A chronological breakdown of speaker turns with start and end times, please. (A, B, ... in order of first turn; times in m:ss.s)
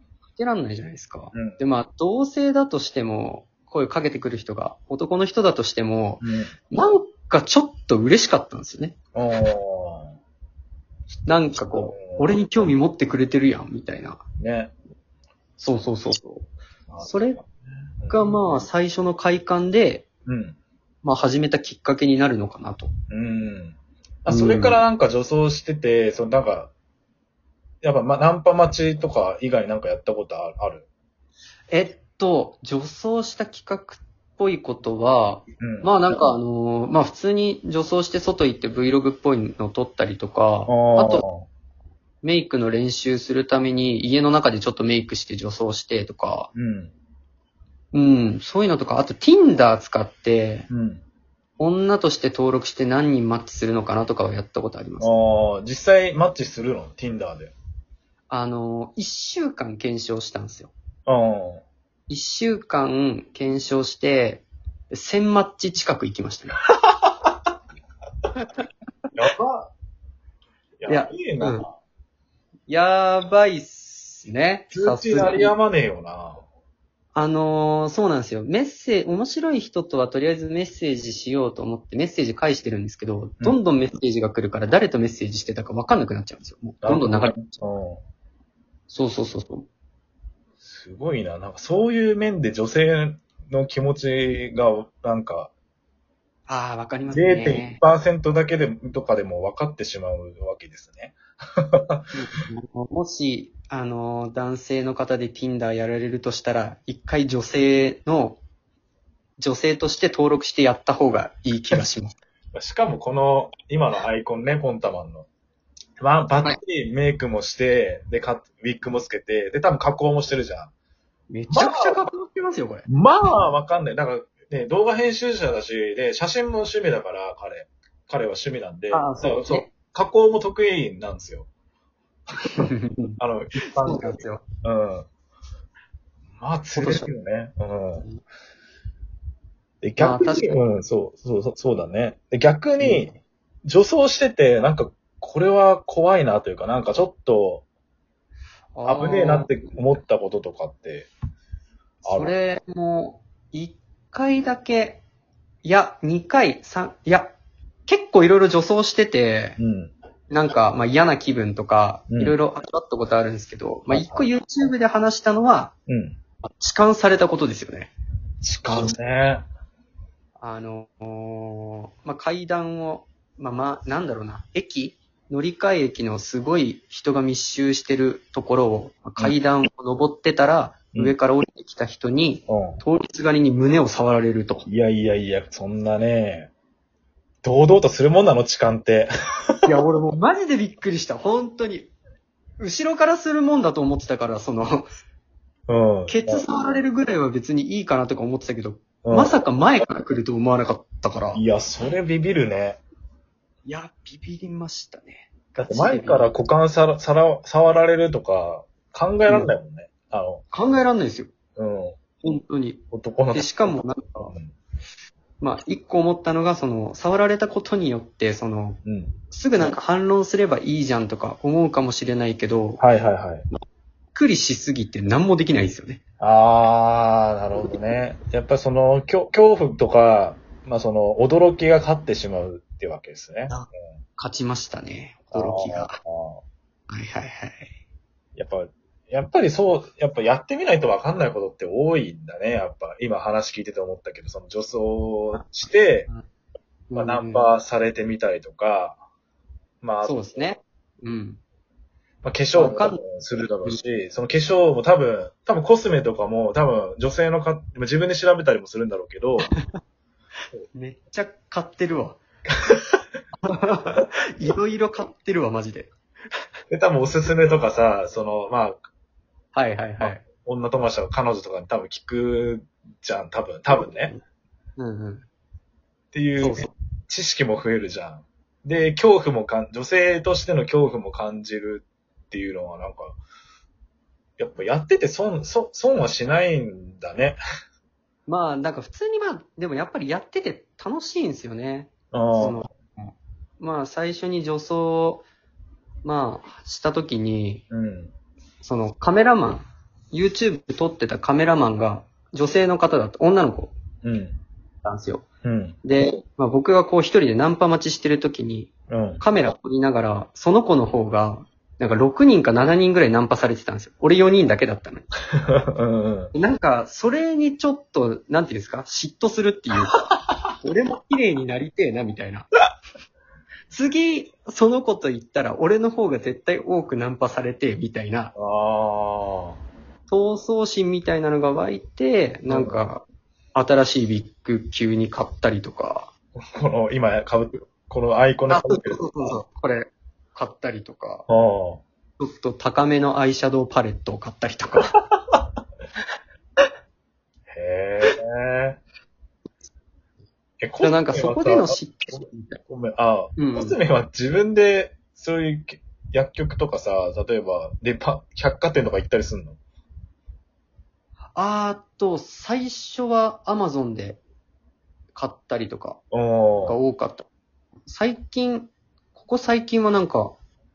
0:00.4-0:09.0 A
0:01.3-0:01.6 B
0:06.2-0:06.5 B
0:09.2-0:10.1 B
0:11.3-0:14.2 A
0:11.7-0:12.7 B
0:14.4-0:14.7 B
0:15.6-0:16.5 A
0:16.9-0:17.4 B
0:17.0-0:17.4 A
0:18.0-0:18.4 B
0:18.1-0:20.1 A
0:20.3-0:20.6 B
0:21.0-0:22.9 A
0:23.1-0:26.7 B
0:24.3-0:24.8 A
0:27.8-0:30.9 B
0:31.7-0:41.2 A
0:35.6-0:35.9 B
0:40.7-0:41.4 B
0:42.2-0:46.5 A
0:46.6-0:46.9 B
0:47.9-0:50.7 A
0:50.7-0:51.0 B
0:51.6-0:55.1 A
0:55.0-0:57.5 B
0:58.3-1:00.7 A
1:01.1-1:01.6 B
1:02.1-1:06.6 A
1:08.4-1:08.6 A
1:09.2-1:09.7 B
1:10.8-1:11.7 B
1:10.9-1:11.7 A
1:12.7-1:15.5 A
1:14.7-1:16.4 B
1:17.2-1:27.6 A
1:26.8-1:28.0 B
1:28.9-1:29.6 A
1:30.6-1:35.5 B
1:36.5-1:37.8 A
1:37.1-1:41.2 B
1:41.8-1:42.1 B
1:42.1-1:48.4 A
1:49.4-1:52.2 A
1:52.5-1:55.3 B
1:56.0-2:00.7 B
2:01.3-2:02.9 A
2:01.5-2:02.0 B
2:02.9-2:11.5 B
2:08.9-2:09.7 A
2:12.6-2:14.4 A
2:13.2-2:15.1 B
2:16.4-2:18.1 B
2:16.8-2:17.1 A
2:19.8-2:27.6 B
2:20.0-2:20.6 A
2:22.8-2:23.1 A
2:28.8-2:29.6 A
2:28.8-2:31.1 B
2:32.0-2:32.4 B
2:32.1-2:35.0 A
2:35.6-2:37.4 A
2:37.9-2:39.6 A
2:39.6-2:39.9 B
2:40.3-2:45.7 A
2:42.1-2:42.4 B
2:43.9-2:44.3 B
2:45.9-2:46.2 B
2:46.4-2:47.9 A
2:48.4-2:49.4 B
2:48.6-2:48.9 A
2:50.4-3:04.7 A
3:02.5-3:02.8 B
3:04.7-3:06.5 B
3:07.4-3:09.1 B
3:09.6-3:11.9 A
3:12.6-3:14.9 A
3:15.7-3:16.4 B
3:16.1-3:21.4 A
3:19.0-3:19.3 B
3:21.4-3:22.8 B
3:23.7-3:26.3 A
3:25.6-3:30.4 B
3:29.3-3:29.5 A
3:30.5-3:31.3 A
3:31.6-3:32.0 B
3:32.2-3:32.8 A
3:32.9-3:33.8 B
3:33.3-3:34.4 A
3:35.4-3:42.8 A
3:38.8-3:39.8 B
3:42.8-3:43.5 B
3:44.1-3:46.0 A
3:46.2-3:53.7 B
3:53.5-3:56.0 A
3:55.3-3:56.4 B
3:56.9-3:57.7 A
3:58.4-4:06.1 B
4:05.4-4:06.2 A
4:06.9-4:07.5 A
4:07.0-4:09.0 B
4:09.8-4:10.6 B
4:10.0-4:11.4 A
4:12.2-4:19.5 B
4:12.5-4:13.0 A
4:20.7-4:22.2 A
4:23.4-4:25.9 A
4:26.7-4:28.8 B
4:29.6-4:30.2 A
4:30.0-4:34.1 B
4:33.7-4:34.2 A
4:34.8-4:35.2 A
4:36.1-4:43.2 B
4:36.4-4:36.7 A
4:44.4-4:47.4 B
4:48.3-4:55.2 A
4:52.1-4:52.6 B
4:56.0-4:57.6 A
4:57.7-4:58.1 B
4:58.6-5:03.7 A
5:04.0-5:04.4 B
5:04.8-5:05.2 A
5:05.4-5:05.8 B
5:05.8-5:15.1 A
5:08.9-5:09.2 B
5:15.5-5:16.3 B
5:16.3-5:20.0 A
5:20.6-5:22.5 A
5:23.7-5:28.3 A
5:28.4-5:29.6 B
5:30.1-5:36.1 A
5:32.5-5:32.8 B
5:36.6-5:39.4 B
5:38.5-5:41.3 A
5:41.3-5:41.8 B
5:42.2-5:44.9 A
5:47.5-5:48.8 B
5:50.6-5:59.6 B
5:50.8-5:52.6 A
5:53.4-5:53.8 A
6:01.4-6:04.2 A
6:05.1-6:06.0 A
6:06.1-6:06.8 B
6:06.6-6:07.3 A
6:07.9-6:10.4 A